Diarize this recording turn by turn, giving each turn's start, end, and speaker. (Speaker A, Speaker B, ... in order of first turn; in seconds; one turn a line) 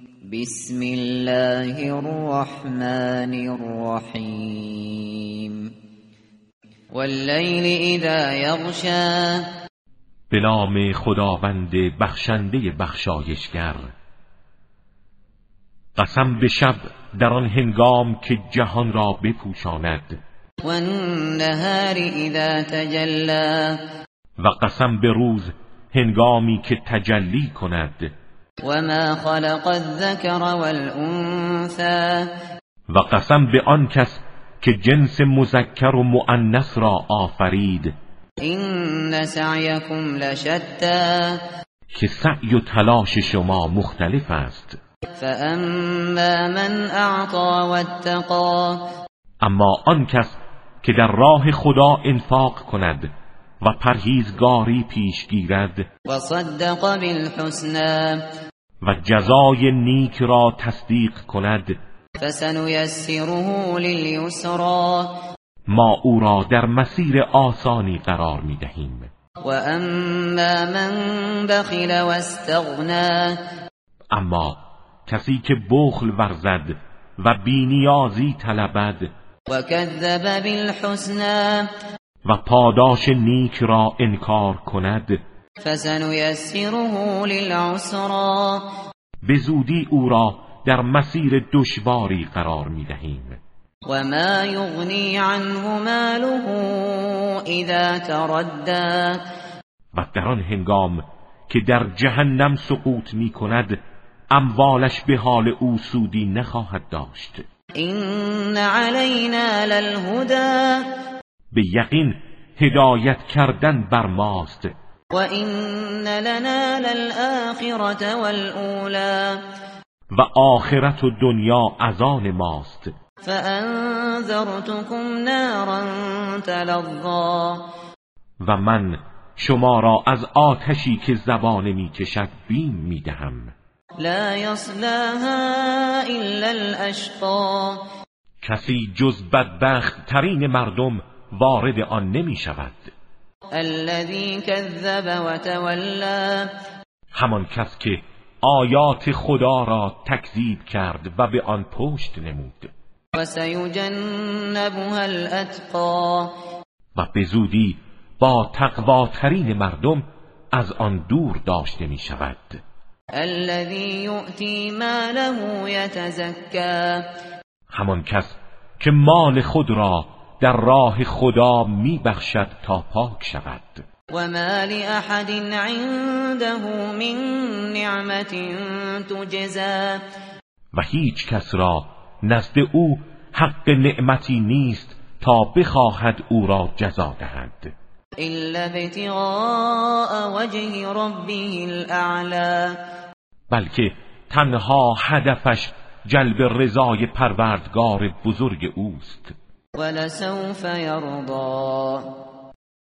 Speaker A: 0.2-5.7
Speaker A: 6.9-9.5
Speaker B: 10.3-13.9
Speaker B: 15.9-20.2
Speaker A: 20.6-23.8
Speaker B: 24.4-28.1
Speaker A: 28.6-32.3
Speaker B: 32.9-37.9
Speaker A: 38.4-41.4
Speaker B: 41.9-44.8
Speaker A: 45.2-48.8
Speaker B: 49.4-53.1
Speaker B: 53.6-55.9
Speaker A: 56.1-58.2
Speaker B: 58.8-61.8
Speaker A: 62.2-65.2
Speaker B: 65.7-69.1
Speaker A: 69.4-73.4
Speaker B: 74.1-79.1
Speaker A: 79.5-81.7
Speaker B: 82.2-85.2
Speaker A: 85.6-88.7
Speaker B: 89.2-93.4
Speaker A: 93.9-99.2
Speaker B: 99.9-103.8
Speaker B: 104.3-107.4
Speaker A: 107.8-110.8
Speaker B: 111.5-114.7
Speaker A: 115.1-119.4
Speaker B: 120.1-122.9
Speaker A: 123.2-127.6
Speaker B: 128.4-133.5
Speaker A: 134.0-137.8
Speaker B: 138.4-142.9
Speaker A: 143.5-146.5
Speaker B: 147.1-152.7
Speaker A: 153.1-156.3
Speaker B: 156.9-162.6
Speaker A: 163.2-167.1
Speaker B: 167.7-173.8
Speaker A: 174.1-180.0
Speaker B: 180.7-187.7
Speaker A: 188.2-192.8
Speaker B: 193.5-199.3
Speaker A: 199.8-202.1